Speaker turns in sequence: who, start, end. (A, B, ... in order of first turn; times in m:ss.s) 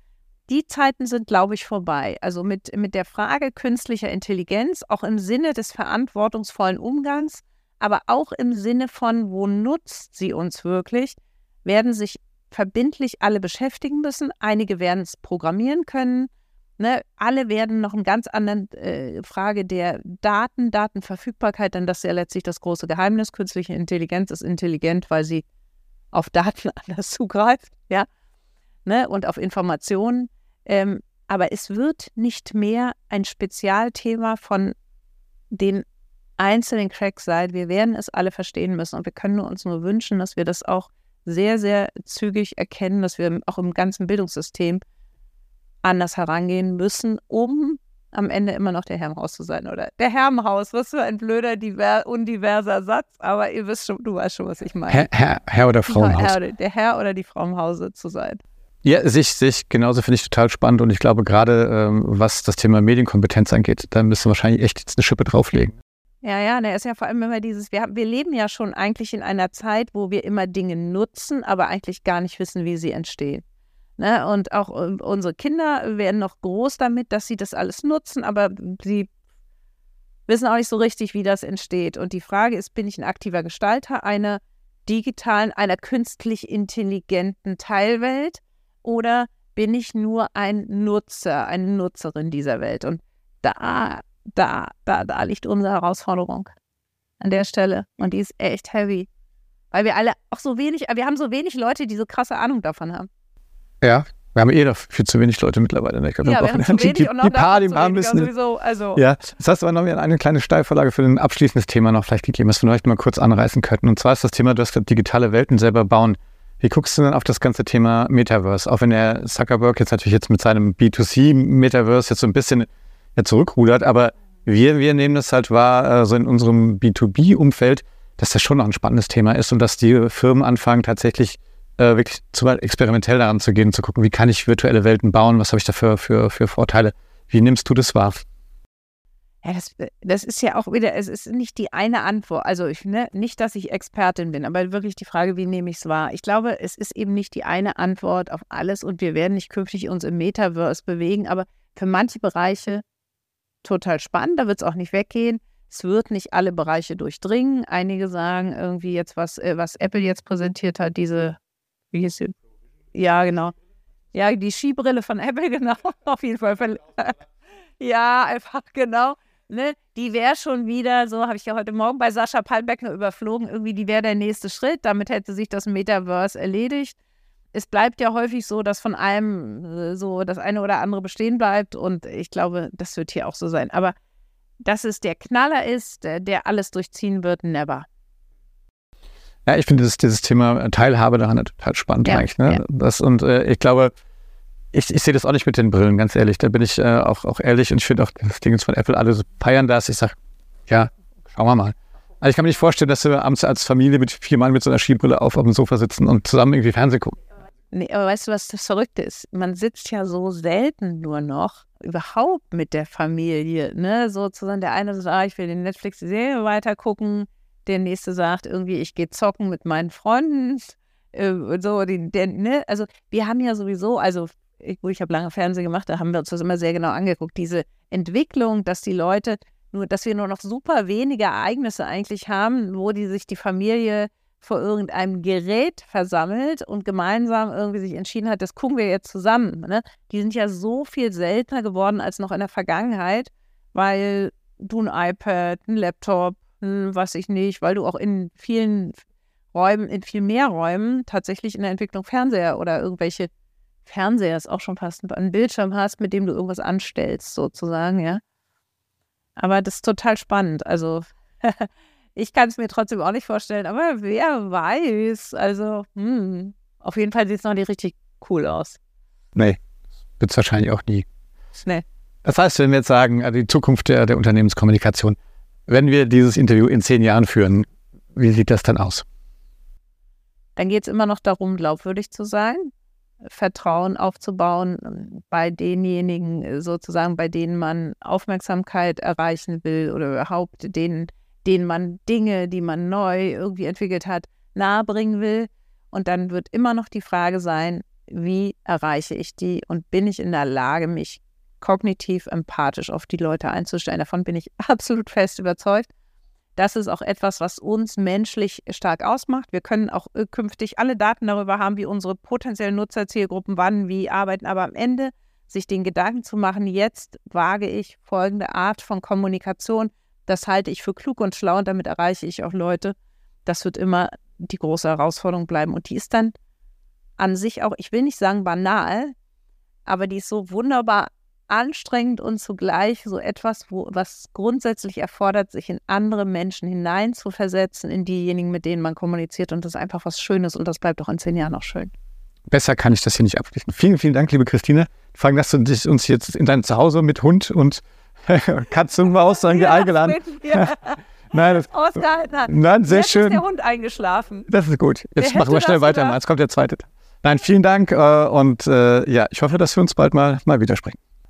0:00.5-0:25.4 A
0:26.1-0:28.1 A
0:28.8-0:34.7 A
0:35.5-0:35.8 A
0:36.4-0:44.8 A
0:45.8-0:55.1 A
0:54.9-0:56.4 B
0:55.9-0:58.4 A
0:58.8-1:05.7 B
1:06.2-1:13.4 A
1:14.0-1:19.1 A
1:20.3-1:36.5 A
1:37.2-1:39.1 A
1:39.7-1:43.1 A
1:43.8-1:48.3 B
1:46.2-1:49.0 A
1:49.0-2:18.2 B
2:19.4-2:32.8 A
2:33.6-2:41.4 A
2:41.9-2:42.3 A
2:42.9-2:43.5 A
2:44.1-2:47.2 A
2:47.8-2:57.0 A
2:57.5-3:03.9 A
3:04.6-3:07.8 A
3:09.4-3:13.9 B
3:12.0-3:12.6 A
3:14.7-3:20.2 B
3:20.7-3:27.2 B
3:27.7-4:09.0 A
4:09.5-4:13.3 A
4:13.8-4:18.2 A
4:19.4-4:28.8 A
4:29.3-4:29.6 B
4:30.2-4:31.0 B
4:32.2-4:39.0 B
4:40.6-4:42.7 A
4:43.2-5:05.9 A
5:06.6-5:26.3 A
5:27.2-5:29.1 A
5:29.8-5:41.9 A
5:42.5-5:50.7 B
5:49.4-5:54.5 A
5:51.3-5:53.4 B
5:54.5-6:01.0 B
5:55.2-5:56.2 A